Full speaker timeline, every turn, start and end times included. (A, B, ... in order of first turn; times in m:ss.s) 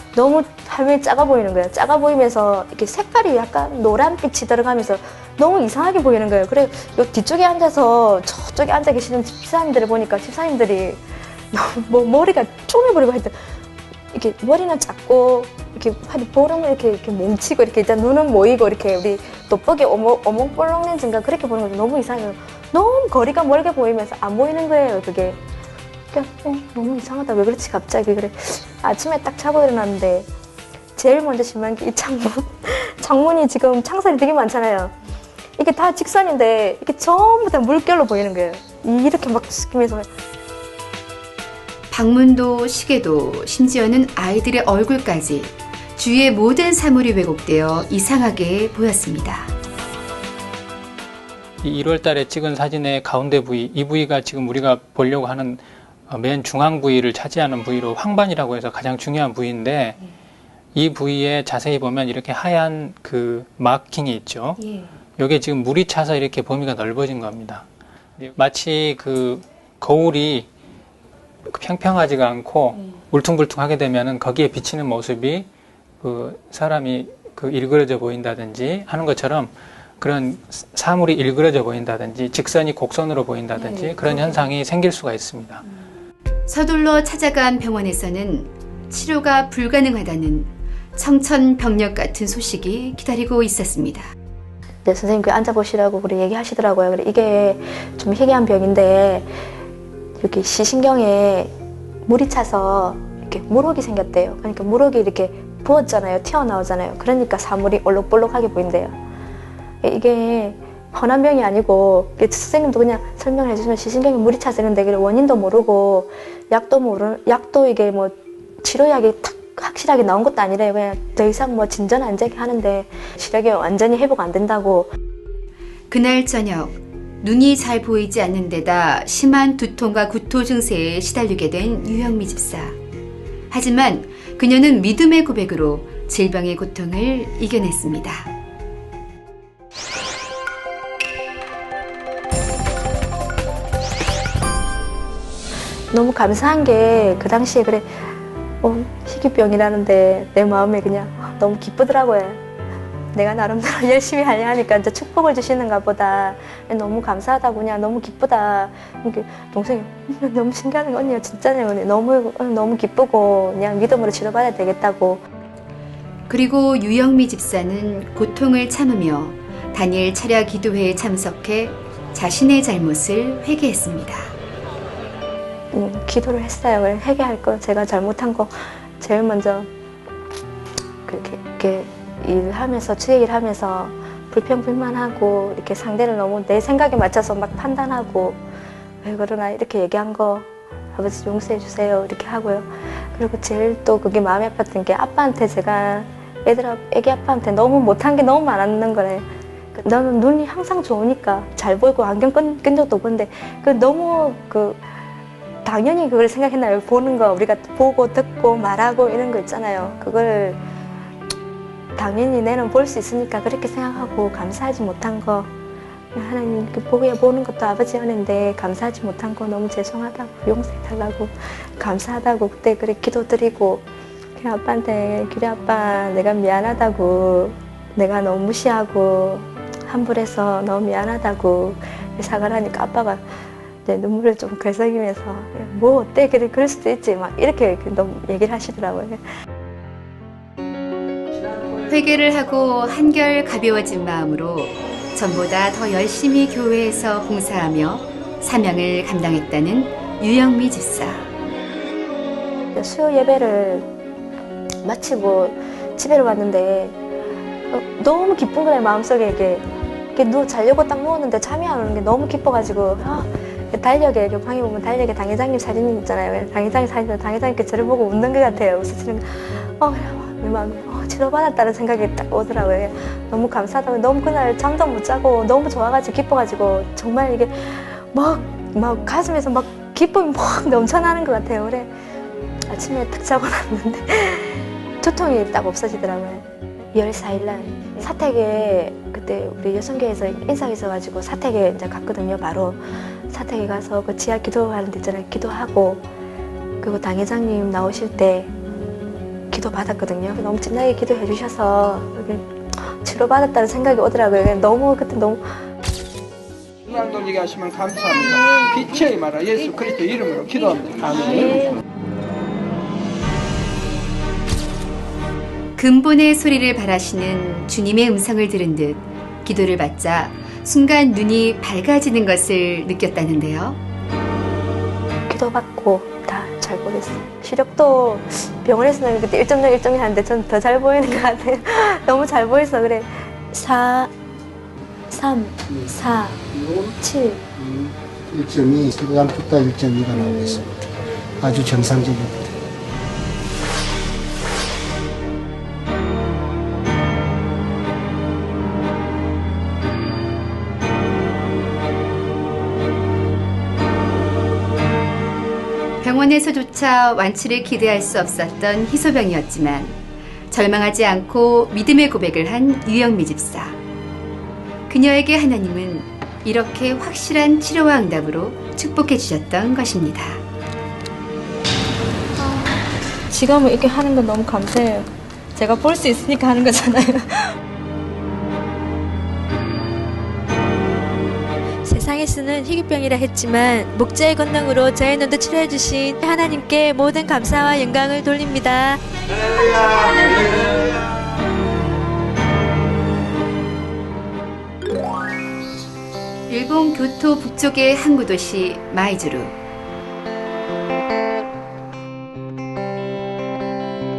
0:00.1-0:11.0 A
0:11.5-0:13.5 A
0:14.1-0:25.4 A
0:26.1-0:30.3 A
0:31.0-0:34.9 A
0:35.6-0:40.1 A
0:41.9-0:49.5 B
0:51.6-1:00.0 C
1:00.8-1:07.6 C
1:08.2-1:10.5 C
1:11.5-1:15.5 C
1:16.0-1:25.6 C
1:26.5-1:34.1 B
1:34.8-1:39.3 A
1:40.2-1:41.5 A
1:42.1-1:49.0 A
1:49.8-2:04.9 A
2:05.9-2:12.8 B
2:13.5-2:18.3 B
2:25.9-2:32.4 A
2:33.1-2:45.2 A
2:46.3-2:54.3 B
2:55.7-2:59.7 A
3:01.1-3:08.4 A
3:09.0-3:24.8 A
3:25.6-3:30.6 A
3:32.0-3:35.5 A
3:36.1-3:43.8 A
3:44.4-3:53.2 A
3:53.8-3:59.2 A
4:01.9-4:11.3 B
4:12.8-4:13.9 A
4:14.8-4:17.0 A
4:17.7-4:19.6 A
4:20.2-4:41.9 A
4:42.7-4:56.0 A
4:56.8-4:58.5 A
4:59.5-5:05.5 A
5:06.9-5:11.7 D
5:15.8-5:23.8 B
5:25.3-5:34.1 A
5:35.1-5:37.4 A
5:37.6-5:40.2 E
5:40.1-5:40.6 A
5:41.4-5:42.4 E
5:56.0-6:00.0 B
6:00.5-6:03.8 B
6:04.9-6:10.4 B
6:12.4-6:17.6 A
6:21.8-6:29.0 F
6:36.5-6:39.5 B